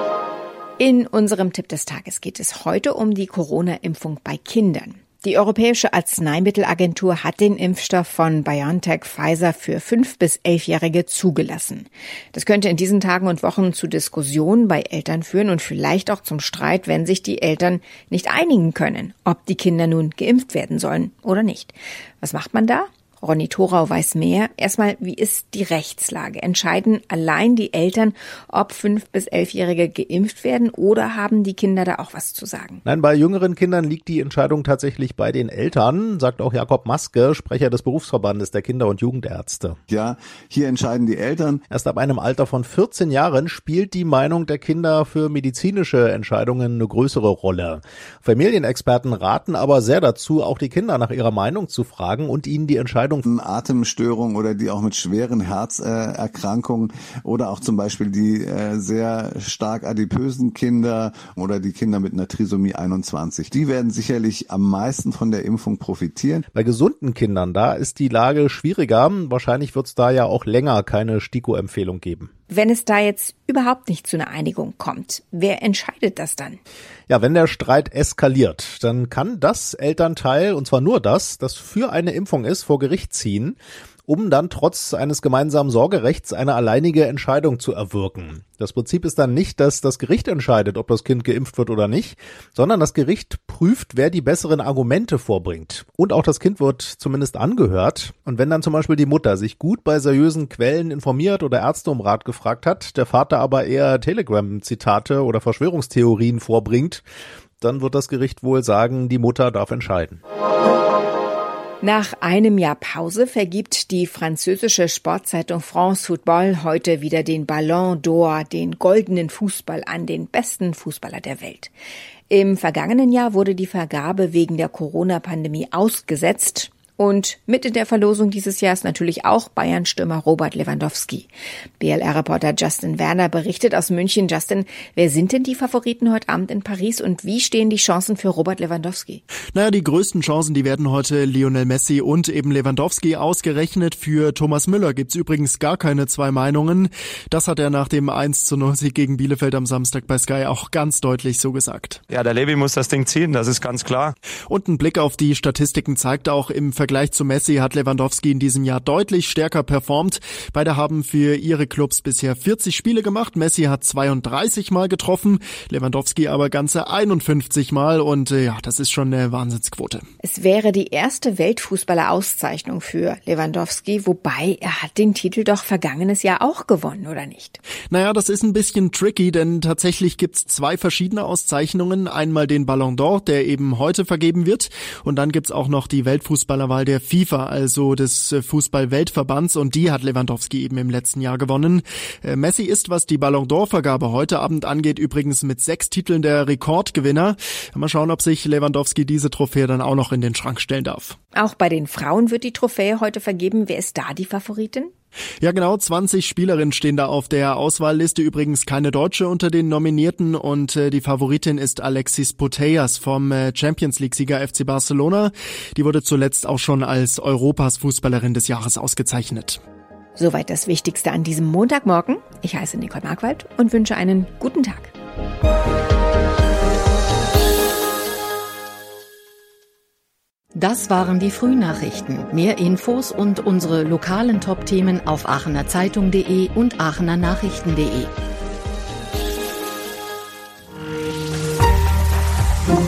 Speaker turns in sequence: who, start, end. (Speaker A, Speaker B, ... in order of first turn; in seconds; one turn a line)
Speaker A: 0.8-32.8
Speaker B: 32.8-39.8
Speaker C: 39.9-41.6
Speaker B: 41.7-53.2
Speaker C: 53.2-66.4
Speaker B: 66.5-72.3
Speaker A: 72.5-76.6
Speaker B: 77.1-107.0
Speaker B: 107.6-110.2
Speaker A: 111.8-121.7
Speaker A: 122.3-139.2
Speaker D: 139.5-152.0
Speaker E: 152.1-154.1
Speaker D: 154.5-170.0
Speaker A: 170.2-177.6
Speaker D: 177.9-201.2
Speaker A: 201.3-204.9
Speaker D: 205.4-219.6
Speaker A: 220.2-224.9
Speaker F: 230.5-238.1